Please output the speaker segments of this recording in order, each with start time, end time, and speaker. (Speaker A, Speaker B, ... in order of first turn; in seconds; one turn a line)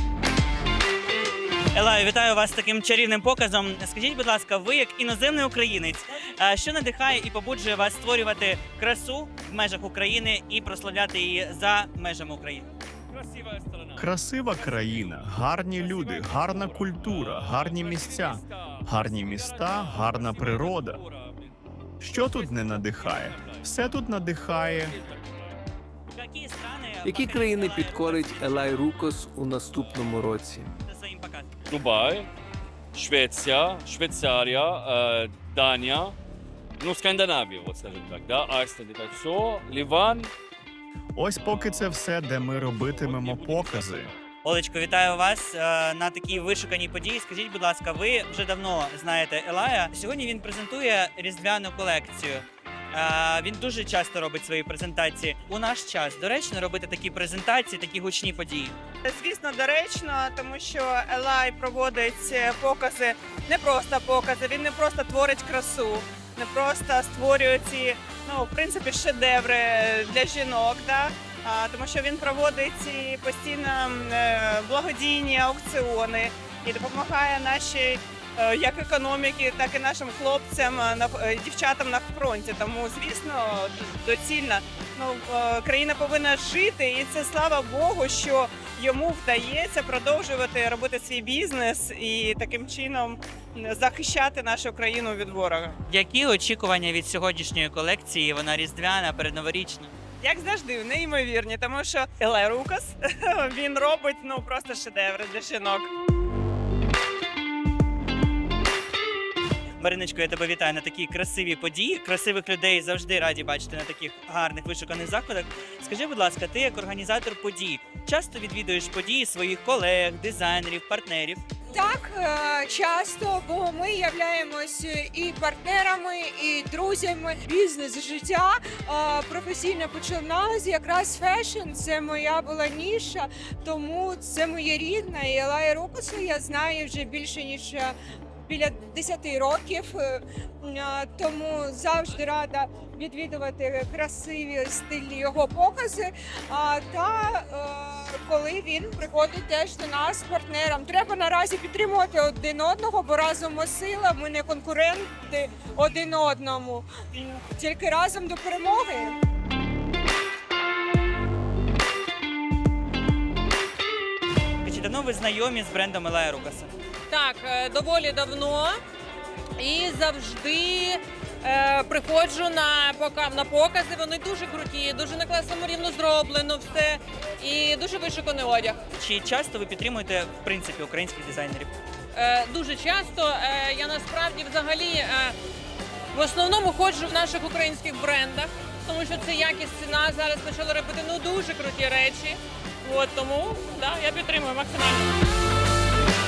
Speaker A: 1.7-12.7
Speaker B: 13.1-23.6
Speaker C: 14.0-21.0
Speaker C: 22.0-24.9
Speaker A: 26.1-29.0
Speaker D: 27.0-30.7
Speaker A: 30.9-31.5
Speaker B: 31.7-32.3
Speaker B: 32.9-36.2
Speaker B: 36.8-40.3
Speaker C: 41.2-44.1
Speaker B: 42.4-44.1
Speaker A: 44.4-58.8
Speaker E: 59.0-95.8
Speaker A: 95.9-99.9
Speaker E: 100.2-105.9
Speaker A: 109.8-121.4
Speaker F: 121.7-137.9
Speaker F: 138.5-159.2
Speaker A: 164.6-166.7
Speaker G: 167.1-168.8
Speaker G: 169.6-178.8
Speaker A: 178.9-181.7
Speaker G: 182.1-185.3
Speaker G: 186.1-195.1